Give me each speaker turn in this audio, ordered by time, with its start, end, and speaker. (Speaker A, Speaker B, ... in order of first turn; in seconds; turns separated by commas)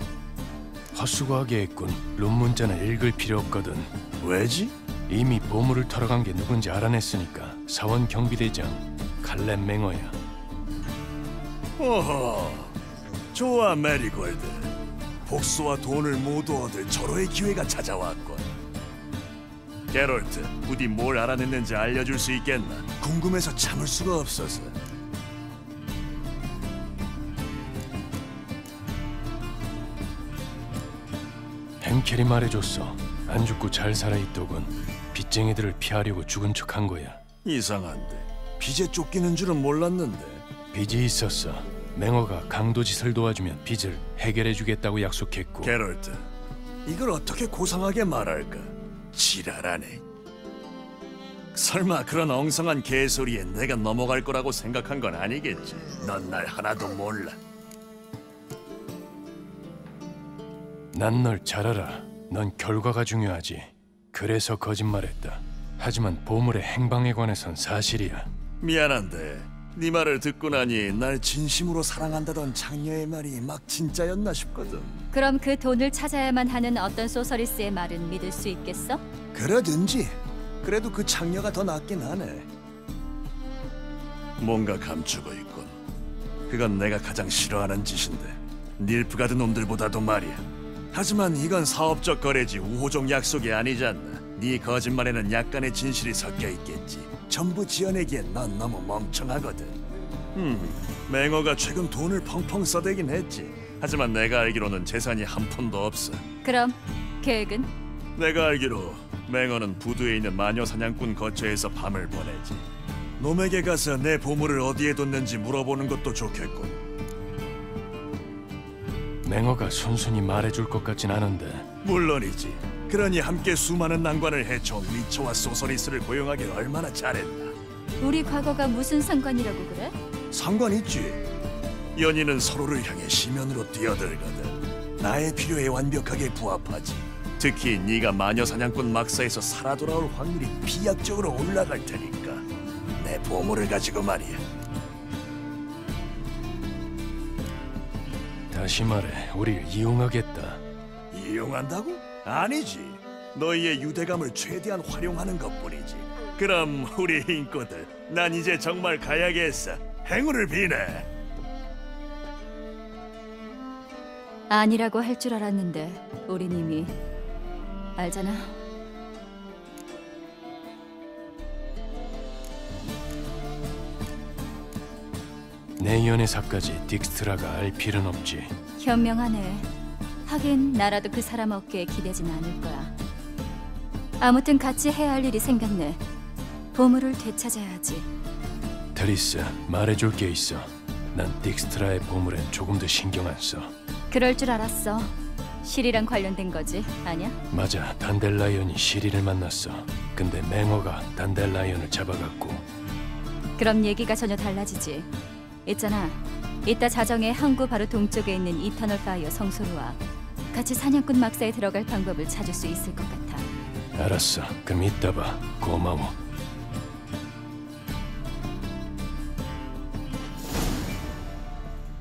Speaker A: 0.9-3.9, Speaker B: 4.2-4.7, Speaker A: 5.1-10.2, Speaker B: 11.8-12.8, Speaker B: 13.3-14.7, Speaker B: 15.3-18.5, Speaker B: 19.9-24.8, Speaker A: 31.8-37.2, Speaker B: 37.4-40.5, Speaker A: 40.7-45.7, Speaker B: 45.6-46.3, Speaker B: 46.9-50.0, Speaker B: 51.5-57.4, Speaker A: 60.9-68.3, Speaker B: 68.6-75.1, Speaker C: 75.1-79.0, Speaker B: 79.3-82.5, Speaker B: 84.4-85.8, Speaker B: 86.5-99.8, Speaker B: 100.3-106.2, Speaker C: 106.4-107.7, Speaker B: 108.2-112.7, Speaker B: 113.2-116.8, Speaker A: 119.2-121.7, Speaker B: 121.8-127.6, Speaker C: 128.0-129.9, Speaker B: 130.3-131.2, Speaker B: 131.9-142.4, Speaker B: 143.0-144.4, Speaker A: 148.5-150.6, Speaker B: 151.1-161.1, Speaker C: 164.5-166.9, Speaker C: 168.0-168.5, Speaker A: 175.8-178.5, Speaker C: 178.8-179.7, Speaker C: 180.3-182.9, Speaker C: 184.2-186.0, Speaker C: 186.7-188.1, Speaker A: 188.9-193.7, Speaker C: 194.1-197.4, Speaker A: 197.5-202.6, Speaker C: 203.6-205.1, Speaker C: 205.6-210.0, Speaker C: 210.5-213.4, Speaker A: 213.9-216.1